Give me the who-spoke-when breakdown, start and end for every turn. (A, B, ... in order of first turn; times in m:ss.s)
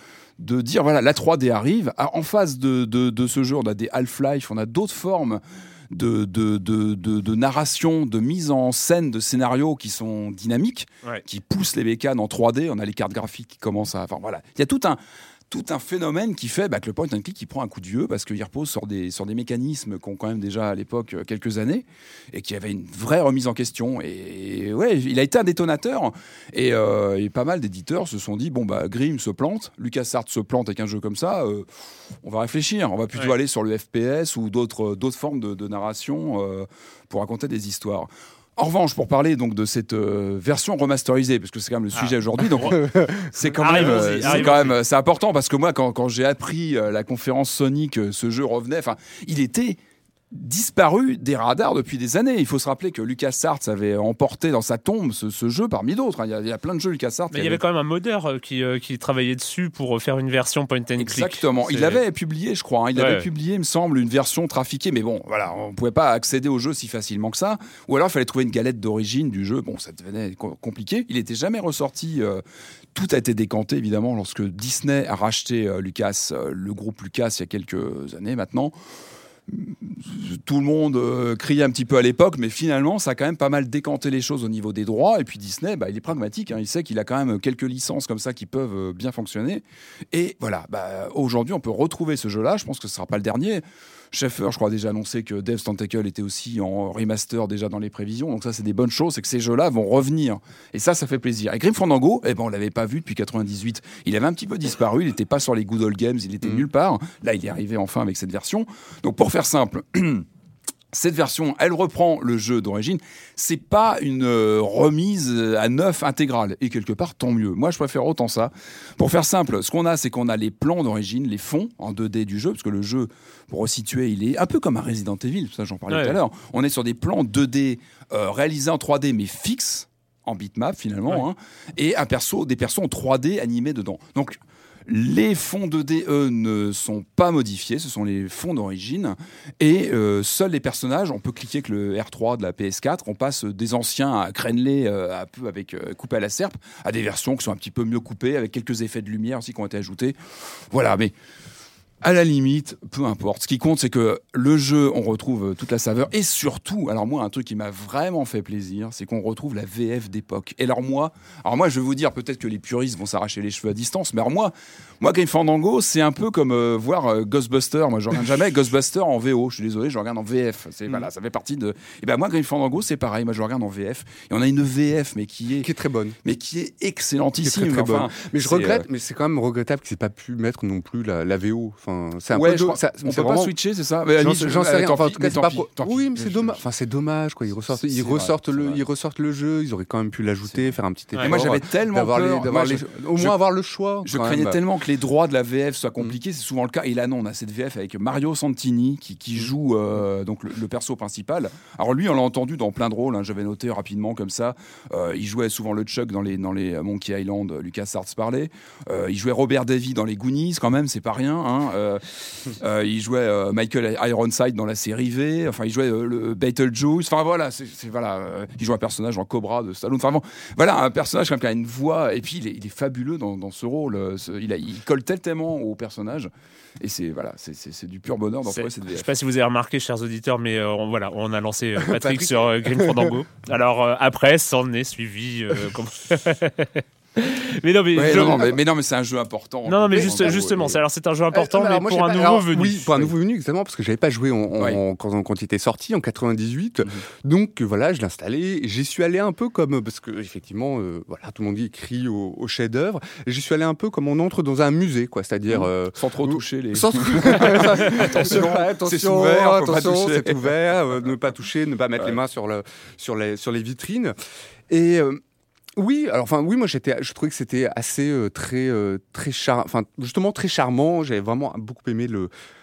0:00.4-0:31.7 A
0:32.2-0:49.8 A
0:41.9-0:42.8 B
0:42.8-0:44.1 C
0:43.6-0:44.8 B
0:50.3-0:57.6 A
0:57.3-1:02.0 B
1:01.0-1:12.4 A
1:03.0-1:03.2 B
1:12.9-1:18.7 A
1:19.5-1:50.2 A
1:50.9-2:30.2 A
2:05.9-2:06.2 B
2:30.7-2:31.1 A
2:32.0-2:55.7 A
2:55.6-2:56.2 C
2:56.2-2:58.9 A
2:57.4-3:03.5 C
3:02.3-3:06.6 A
3:04.2-3:14.6 C
3:07.7-3:08.8 A
3:11.2-3:13.4 A
3:14.0-3:49.1 A
3:48.5-3:58.5 B
3:51.9-3:53.1 C
3:57.9-4:00.8 A
3:59.6-4:03.1 B
3:59.9-4:00.4 C
4:01.3-4:24.1 C
4:15.5-4:20.5 A
4:24.7-4:25.2 C
4:25.8-4:32.3 C